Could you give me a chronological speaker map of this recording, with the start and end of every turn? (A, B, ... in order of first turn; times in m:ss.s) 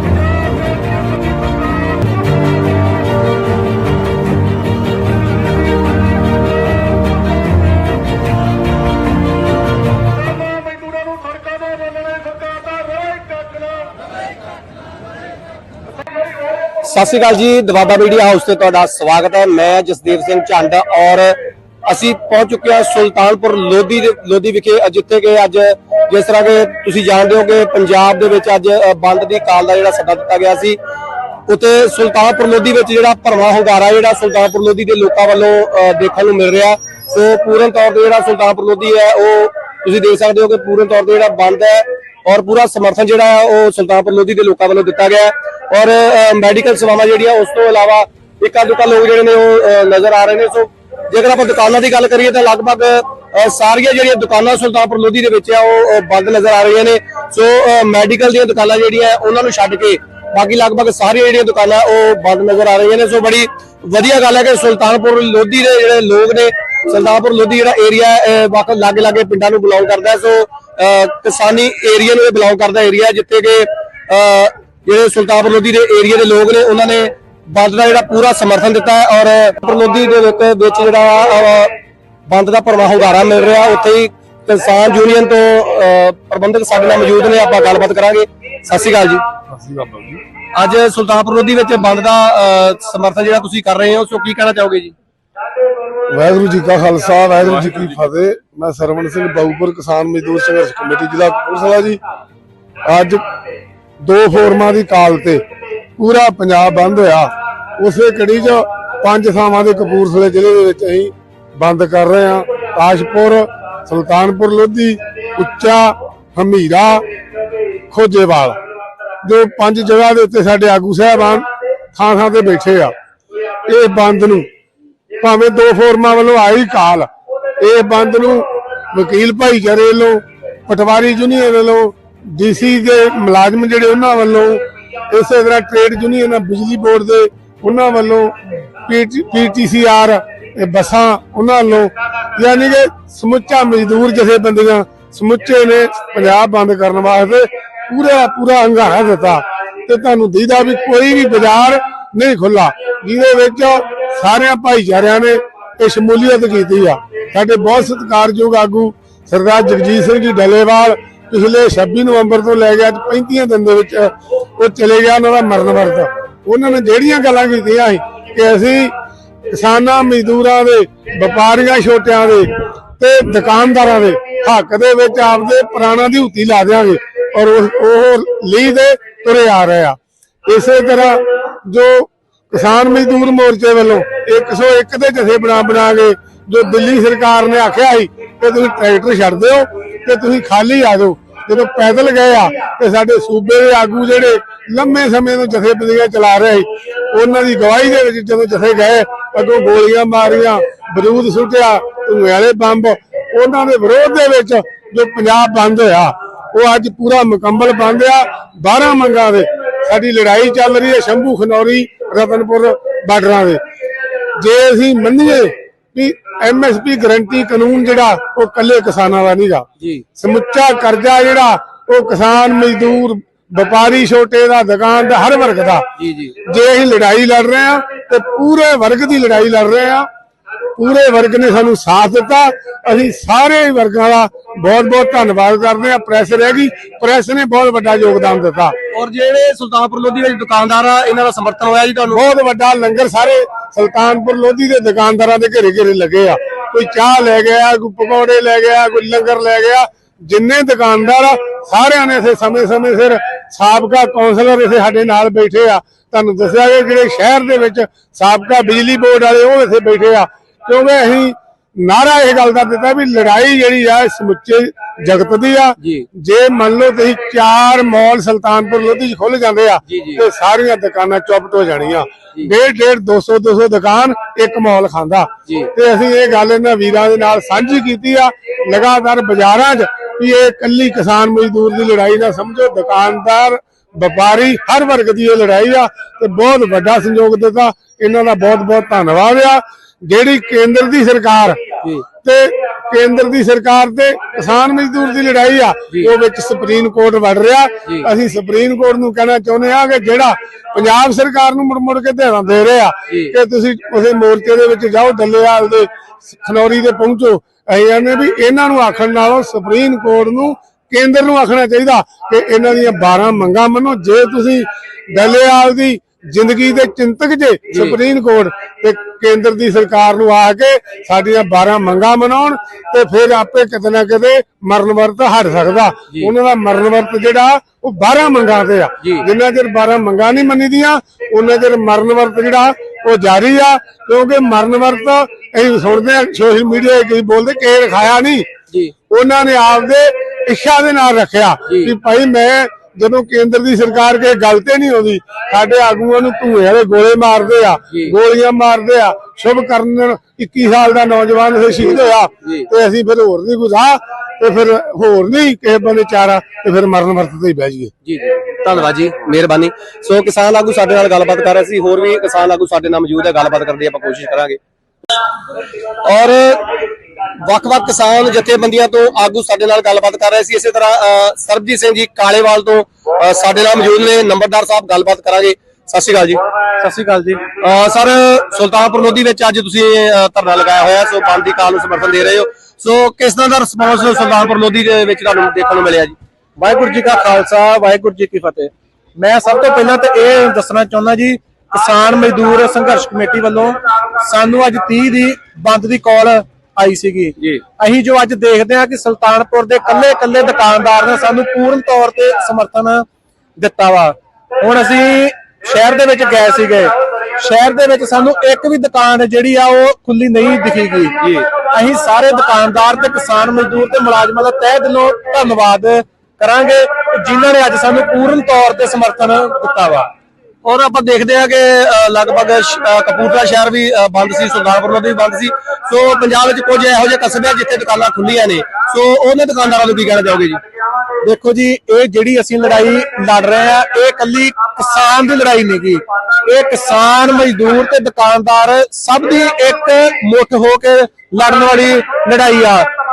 0:16.8-0:30.8 A
0:31.5-1:21.8 A
1:22.3-1:29.3 A
1:29.5-1:30.2 B
1:30.5-1:35.0 A
1:36.1-1:42.0 B
1:42.8-1:43.3 B
1:44.0-1:45.4 B
1:46.0-1:57.0 B
1:57.9-1:58.6 B
1:59.2-2:02.9 B
2:03.7-2:04.5 B
2:05.2-2:07.1 B
2:07.6-2:48.9 B
2:49.5-3:33.6 B
3:34.4-3:45.9 B
3:46.0-3:46.3 C
3:46.4-3:50.1 B
3:50.8-3:58.8 B
3:58.9-4:02.2 A
4:02.1-4:51.6 B
4:29.9-4:30.2 C
4:52.2-5:38.5 B
5:03.1-5:03.3 C
5:17.7-5:18.0 C
5:39.1-5:57.9 B
5:41.7-5:41.9 C
5:58.0-5:58.3 C
5:58.6-6:04.6 A
6:06.0-6:06.8 A
6:07.4-6:16.4 A
6:16.8-6:17.5 C
6:17.6-6:26.2 A
6:26.6-6:43.1 C
6:43.6-7:00.1 C
7:00.6-7:10.6 A
7:11.2-7:22.9 C